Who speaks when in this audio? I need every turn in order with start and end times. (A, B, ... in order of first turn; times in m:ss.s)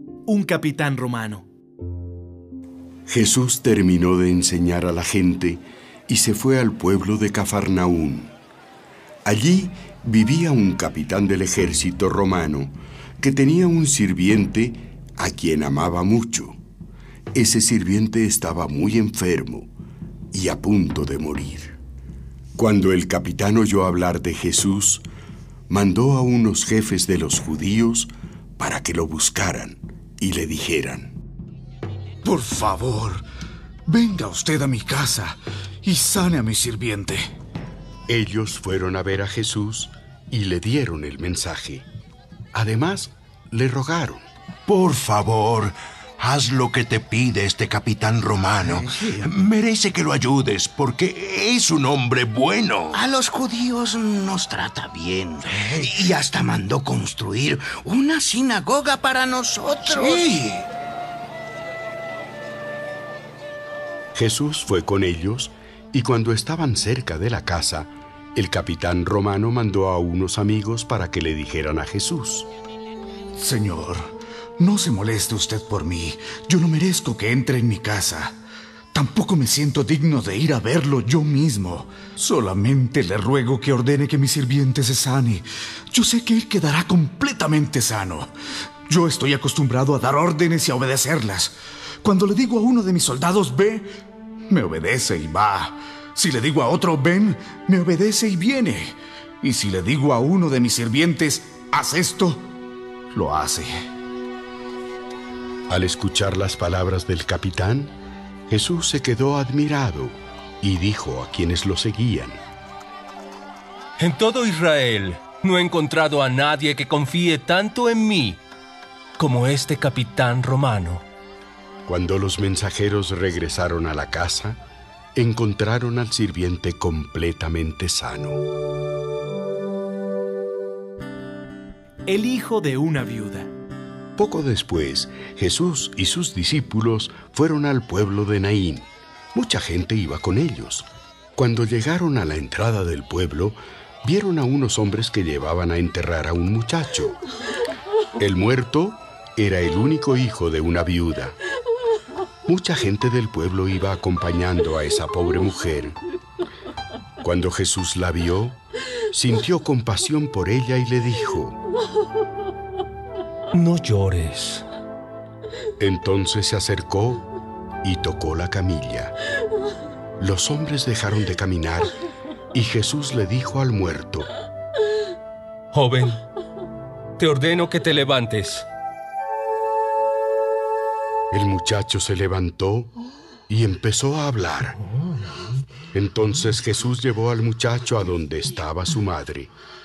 0:00.2-0:01.4 A
0:03.1-0:08.3 B
0:09.2-0:16.6 B
0:17.4-0:19.7 B
0:20.3-0:21.8 B
0:22.6-0:25.0 B
0:25.7-0:31.2 B
0:32.2-0:33.2 C
0:33.9-0:37.2 C
0:38.1-0:41.9 B
0:42.5-0:44.2 B
0:44.7-0:53.0 D
0:52.9-0:55.3 E
0:55.6-0:55.9 D
0:56.0-1:00.4 E
1:04.1-1:12.5 B
1:13.4-1:18.4 C
1:18.9-1:28.3 C
1:28.9-1:33.9 C
1:34.5-1:42.4 C
1:43.1-1:43.7 C
1:45.7-1:47.9 B
1:48.5-1:52.4 B
1:54.0-1:58.4 F
1:59.2-2:01.0 F
2:01.9-2:04.6 B
2:05.2-2:08.4 B
2:12.1-2:13.5 A
2:14.2-2:20.8 B
2:21.4-2:27.2 B
2:28.2-2:31.4 B
2:32.5-2:36.0 B
2:37.2-2:38.6 B
2:39.1-2:41.6 B
2:43.5-2:44.6 F
2:45.8-2:47.2 B
2:47.8-2:49.1 B
2:50.2-2:51.9 B
2:52.5-2:54.3 B
2:55.7-2:56.2 F
2:57.2-2:58.7 F
3:01.3-3:02.9 B
3:03.5-3:04.8 B
3:05.9-3:09.5 B